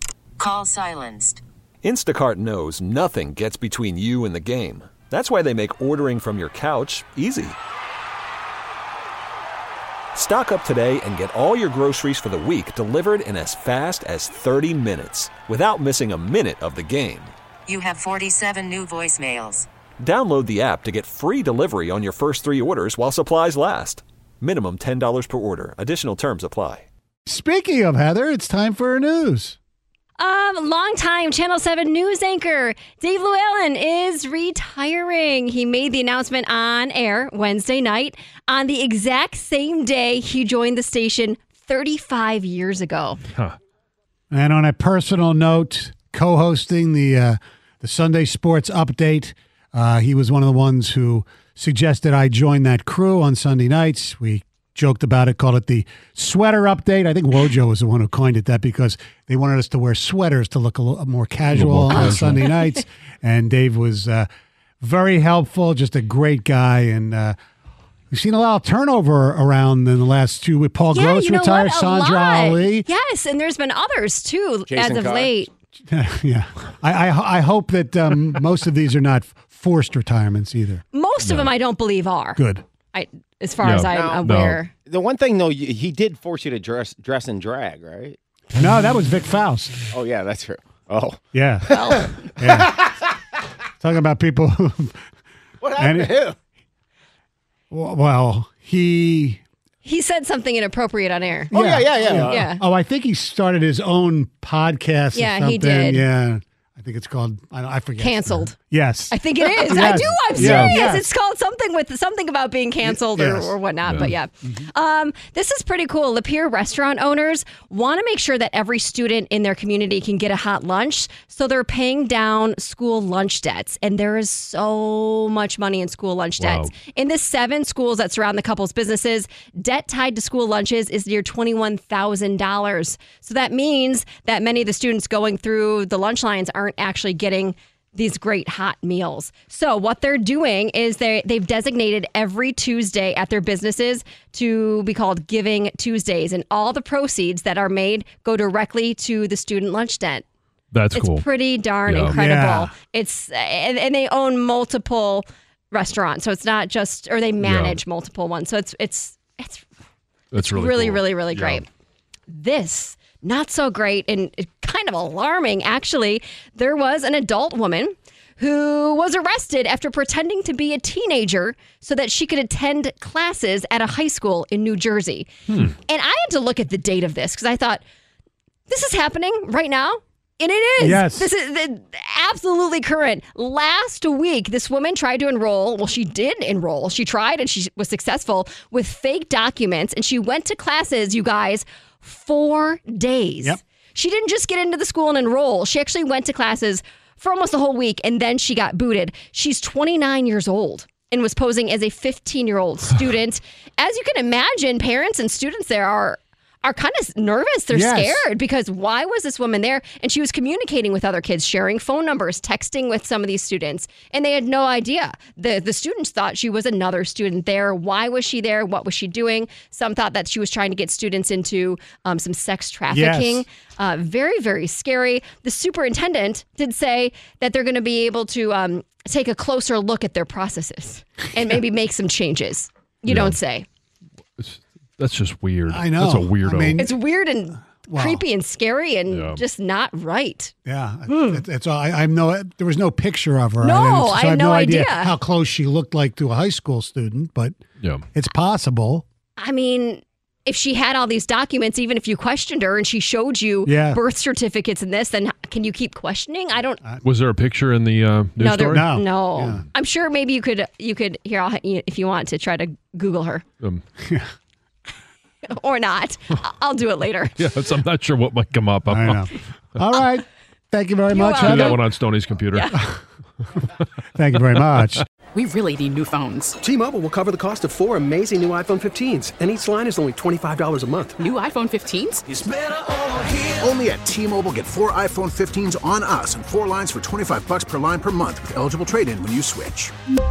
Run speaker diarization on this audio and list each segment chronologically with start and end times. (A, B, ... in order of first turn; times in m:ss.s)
0:00.4-0:01.4 A
0:01.8-0:07.6 B
0:10.1-0:17.3 B
0:17.7-0:19.7 A
0:20.0-0:26.8 B
0:27.2-0:29.6 C
0:30.2-0:43.2 D
0:44.3-1:04.3 C
1:01.5-1:02.4 E
1:01.9-1:02.8 D
1:04.8-1:07.4 C
1:08.1-1:12.9 C
1:10.9-1:15.5 D
1:14.7-1:15.5 F
1:15.9-1:20.8 C
1:20.9-1:22.4 D
1:22.4-1:22.6 C
1:22.9-1:24.7 D
1:23.6-1:24.6 E
1:23.9-1:24.2 F
1:24.8-1:28.2 F
1:28.5-1:29.9 C
1:29.9-1:32.8 F
1:31.3-1:32.8 C
1:33.8-1:35.0 C
1:35.6-1:36.4 F
1:35.8-1:36.2 C
1:37.7-1:39.4 C
1:39.8-1:41.5 D
1:41.5-1:51.1 C
1:41.5-1:42.5 F
1:42.1-1:42.6 D
1:45.1-1:46.0 D
1:48.0-1:48.6 D
1:49.1-2:30.2 D
1:50.4-1:50.8 E
1:52.8-1:54.7 C
1:53.8-1:54.1 E
2:06.4-2:06.7 E
2:30.7-2:31.2 E
2:30.9-2:39.6 D
2:31.8-2:32.2 E
2:32.1-2:32.7 C
2:37.4-2:37.8 E
2:40.3-2:41.6 E
2:40.4-2:41.6 D
2:42.3-2:57.8 D
2:58.7-3:53.6 D
3:00.8-3:01.3 C
3:27.7-3:28.3 C
3:42.9-3:43.4 C
3:53.1-3:53.4 E
3:54.4-3:56.8 E
3:55.7-3:57.0 C
3:56.8-4:00.5 D
3:57.8-3:58.2 C
3:59.1-3:59.4 E
4:00.6-4:07.6 C
4:03.6-4:05.1 D
4:08.1-4:09.0 C
4:09.4-4:16.8 D
4:13.6-4:14.0 C
4:17.0-4:18.9 E
4:18.4-4:23.4 D
4:18.7-4:19.6 C
4:24.0-4:24.3 C
4:25.5-4:27.4 D
4:27.4-4:29.3 E
4:28.9-4:31.8 C
4:31.1-4:31.8 D
4:31.4-4:32.7 E
4:32.7-4:33.0 C
4:34.1-4:35.0 C
4:35.3-4:36.6 G
4:36.6-4:41.2 H
4:41.2-4:42.2 G
4:42.3-4:49.9 I